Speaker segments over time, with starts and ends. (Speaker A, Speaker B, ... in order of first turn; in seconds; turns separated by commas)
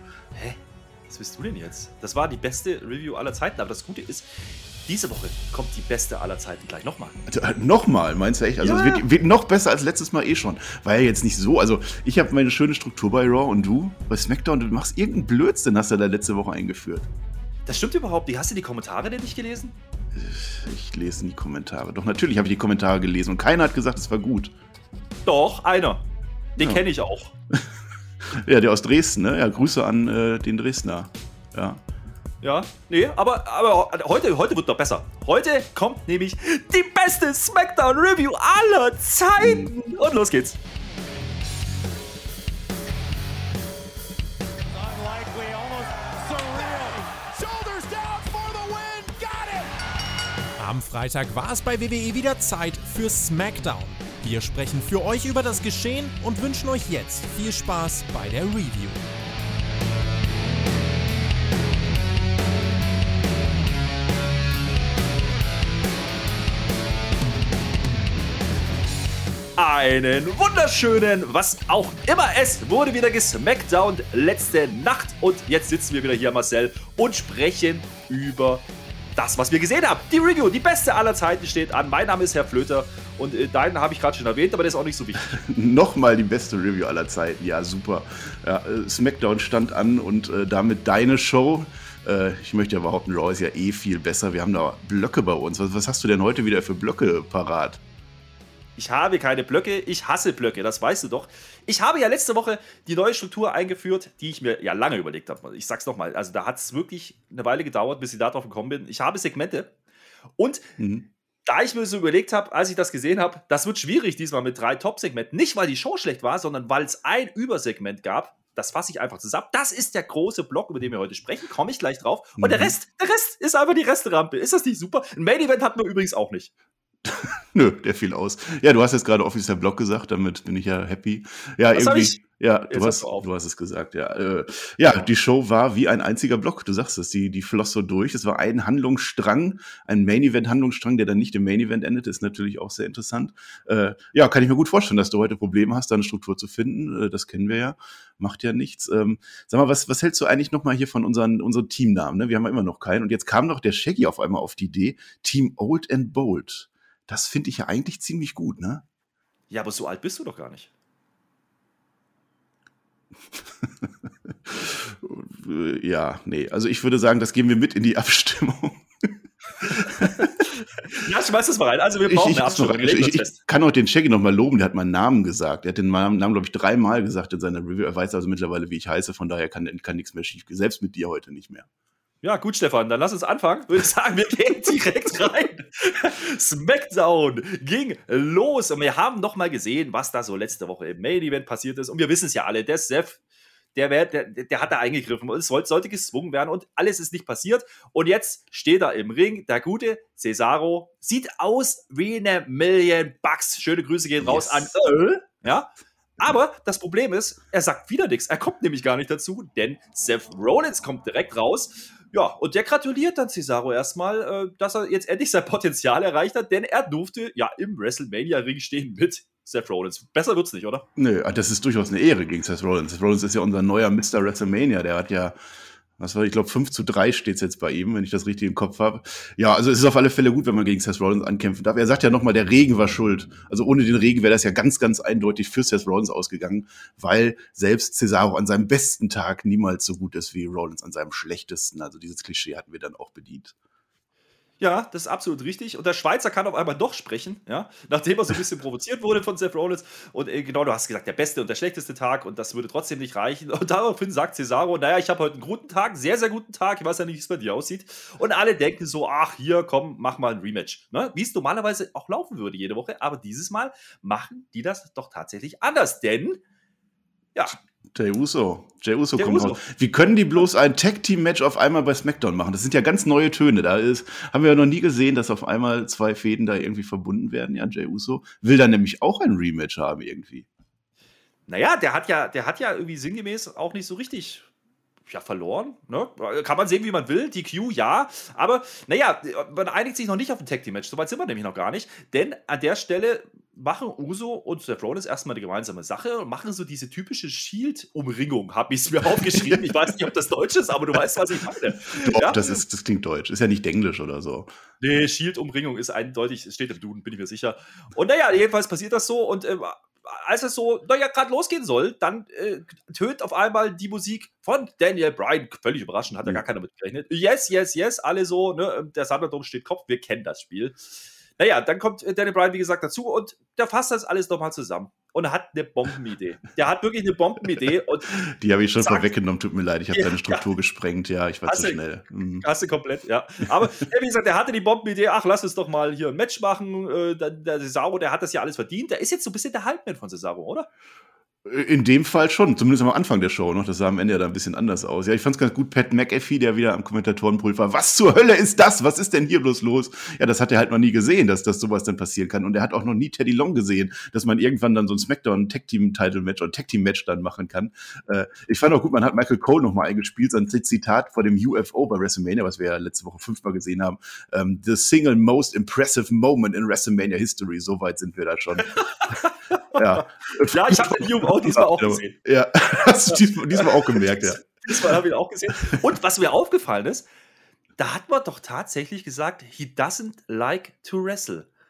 Speaker A: 0.3-7.2, Speaker B: 7.2-17.0, Speaker A: 8.6-9.1, Speaker A: 17.6-19.8, Speaker B: 20.1-24.5, Speaker A: 25.2-26.0, Speaker A: 26.6-27.3, Speaker B: 26.6-26.8, Speaker B: 28.3-31.8, Speaker A: 32.4-40.6, Speaker B: 39.4-39.7, Speaker C: 44.7-49.7, Speaker C: 50.6-59.0, Speaker A: 69.5-78.6, Speaker A: 79.2-85.3, Speaker B: 85.2-97.8, Speaker A: 98.8-109.7, Speaker A: 110.4-110.7, Speaker B: 110.8-111.1, Speaker A: 111.4-126.5, Speaker B: 122.4-122.7, Speaker B: 127.0-158.8, Speaker A: 131.7-133.2, Speaker A: 159.5-160.7, Speaker B: 164.4-169.1, Speaker B: 169.6-170.4, Speaker A: 170.9-173.3, Speaker B: 172.1-181.7, Speaker A: 182.2-193.2, Speaker A: 193.7-220.8, Speaker B: 204.2-204.7, Speaker B: 220.9-225.3, Speaker B: 226.0-243.5, Speaker A: 244.6-266.4, Speaker B: 267.9-280.5, Speaker A: 269.2-269.6, Speaker A: 281.5-284.5, Speaker A: 285.1-302.4, Speaker B: 301.9-304.5, Speaker A: 304.8-328.2, Speaker B: 328.1-332.4, Speaker A: 328.8-329.1, Speaker A: 329.9-330.4, Speaker A: 331.5-331.8, Speaker A: 332.4-340.7, Speaker B: 341.4-368.8, Speaker A: 368.6-372.1, Speaker B: 369.7-375.0, Speaker A: 372.7-377.1, Speaker A: 377.8-381.5